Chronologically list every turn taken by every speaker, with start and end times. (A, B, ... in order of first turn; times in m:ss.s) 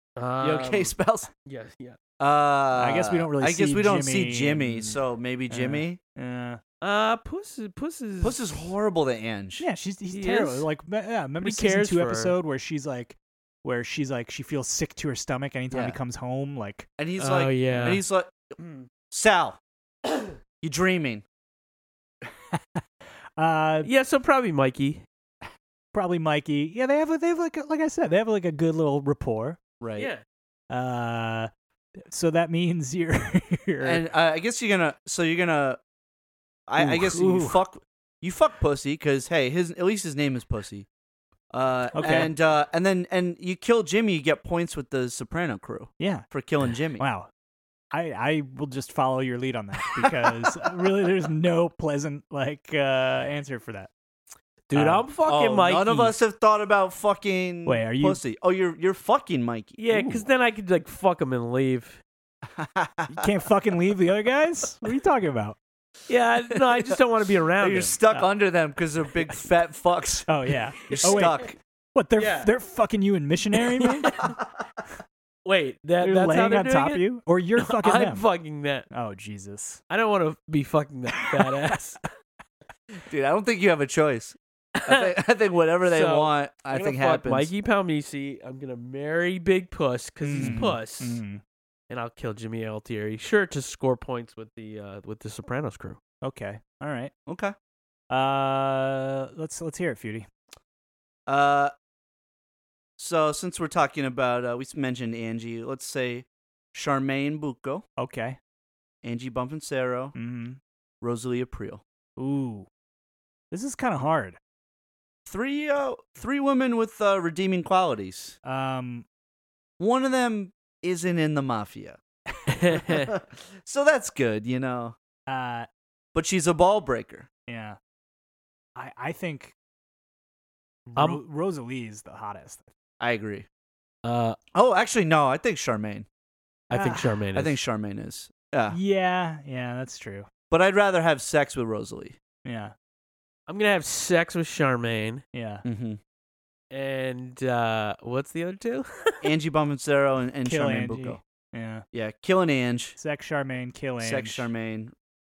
0:00.2-0:00.9 A
0:00.4-0:01.3 B
0:01.4-0:02.0 A
0:02.2-0:06.0 B
0:02.7-0:05.0 C
0:05.5-0:06.6 C
0:06.8-0:08.7 A
0:08.2-0:09.6 B
0:09.6-0:16.8 C
0:10.1-0:10.6 A
0:11.4-0:12.4 A
0:15.7-0:16.0 B
0:17.0-0:18.6 B
0:17.2-0:18.0 A
0:19.1-0:19.6 B
0:20.6-0:21.2 B
0:22.5-0:22.8 C
0:23.4-0:23.9 C
0:23.8-0:25.0 A
0:25.9-0:29.6 C
0:29.8-0:30.1 B
0:30.0-0:30.2 A
0:30.7-0:31.5 C
0:32.1-0:34.0 C
0:33.8-0:35.8 B
0:36.7-0:40.9 B
0:36.8-0:37.6 C
0:41.5-0:47.0 B
0:41.9-0:42.3 C
0:46.0-0:46.2 C
0:47.0-0:47.3 C
0:47.9-0:53.9 C
0:54.7-0:56.1 A
0:54.7-0:55.0 C
0:55.2-1:00.2 B
0:57.6-0:58.2 C
0:59.8-1:02.0 A
1:02.6-1:03.3 B
1:03.1-1:05.6 C
1:06.1-1:08.0 A
1:07.6-1:11.6 B
1:10.3-1:11.4 C
1:10.9-1:11.4 A
1:11.9-1:14.1 C
1:12.2-1:12.5 A
1:13.8-1:14.3 A
1:15.4-1:17.0 A
1:16.0-1:18.2 C
1:17.6-1:18.9 A
1:18.9-1:19.8 C
1:19.9-1:22.0 A
1:23.1-1:27.5 B
1:24.8-1:25.1 A
1:25.8-1:31.2 A
1:30.2-1:31.4 C
1:30.4-1:30.8 B
1:31.9-1:36.0 A
1:36.2-1:37.1 C
1:37.3-1:37.5 B
1:38.1-1:40.3 C
1:41.3-1:41.7 B
1:43.0-1:47.8 B
1:48.0-1:48.4 C
1:49.0-1:50.1 B
1:50.1-1:50.6 C
1:51.0-1:51.8 B
1:52.2-1:52.7 C
1:53.5-1:54.4 C
1:55.3-1:58.4 B
1:58.4-1:59.0 C
1:59.8-2:02.0 B
2:02.5-2:03.1 A
2:02.7-2:05.0 B
2:05.3-2:05.7 C
2:06.1-2:07.3 B
2:07.5-2:07.8 C
2:08.8-2:09.5 C
2:10.9-2:12.7 C
2:13.0-2:13.5 B
2:14.0-2:14.4 A
2:14.5-2:16.0 B
2:16.7-2:17.6 A
2:16.7-2:17.2 C
2:17.3-2:18.8 B
2:18.7-2:20.3 C
2:20.5-2:22.2 B
2:22.4-2:22.7 C
2:23.5-2:25.2 A
2:25.3-2:25.6 C
2:25.6-2:26.0 B
2:26.7-2:29.3 A
2:29.2-2:31.2 B
2:30.4-2:31.8 C
2:31.9-2:33.0 B
2:33.0-2:34.5 C
2:34.0-2:34.9 B